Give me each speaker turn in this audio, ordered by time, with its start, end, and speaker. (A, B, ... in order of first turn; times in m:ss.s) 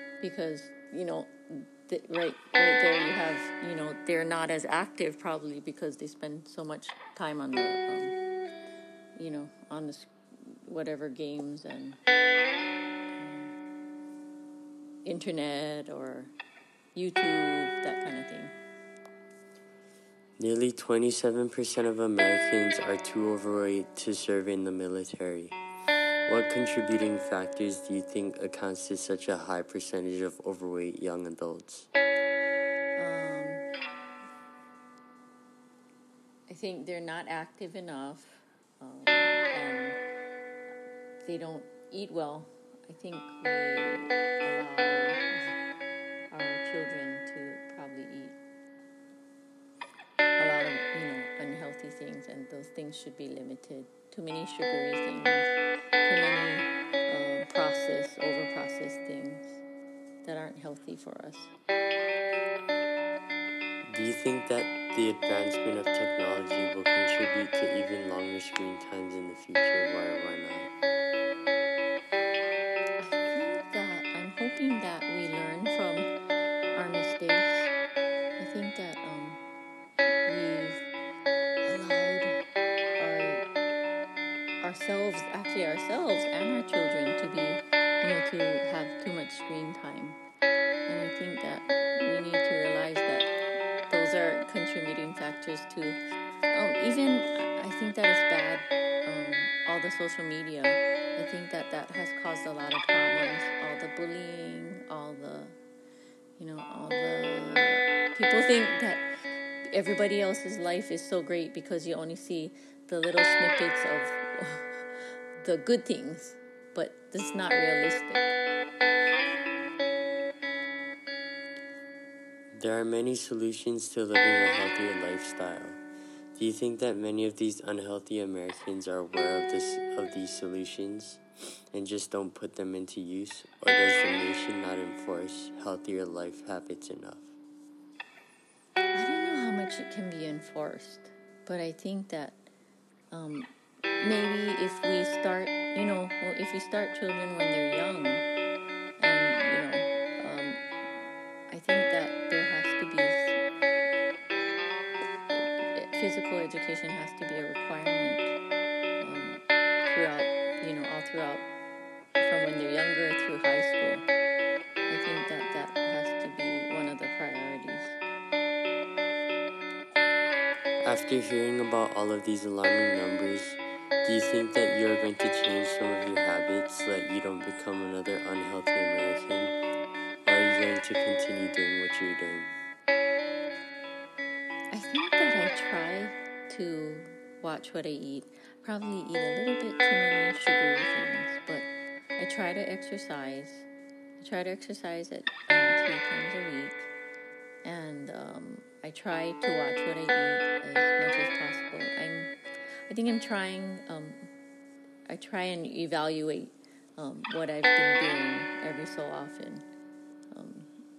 0:00.2-0:08.2 A
0:09.2-0:12.0 A
0:13.2-0:13.5 A
0:15.0-0:16.3 A
0:16.9-0:18.5 A
0:20.4-0:25.6 B
0:26.3-0:31.9 B
0:33.0-0:33.7 A
0:36.5-0:40.0 A
0:41.2-0:45.6 A
0:46.3-0:48.4 A
0:50.4-0:59.6 A
1:00.2-1:01.5 A
1:03.9-1:10.7 B
1:13.0-1:16.1 A
1:16.7-1:17.7 A
1:18.4-1:19.4 A
1:20.3-1:20.9 A
1:21.6-1:22.4 A
1:23.0-1:23.4 A
1:24.6-1:30.2 A
1:30.9-1:33.3 A
1:33.9-1:36.0 A
1:36.5-1:45.6 A
1:46.4-1:49.1 A
1:49.7-1:58.4 A
2:02.5-2:05.8 B
2:06.4-2:11.2 B
2:11.7-2:17.4 B
2:18.9-2:22.5 A
2:23.1-2:28.3 A
2:29.0-2:30.6 A
2:31.5-2:33.4 A
2:35.3-2:38.4 A
2:39.0-2:41.5 A
2:42.2-2:44.1 A
2:44.9-2:48.0 A
2:50.8-2:59.6 B
3:00.2-3:02.5 B
3:04.7-3:13.7 A
3:14.2-3:16.9 A
3:17.6-3:22.3 A
3:22.9-3:24.3 A
3:25.1-3:29.6 A
3:30.3-3:30.7 A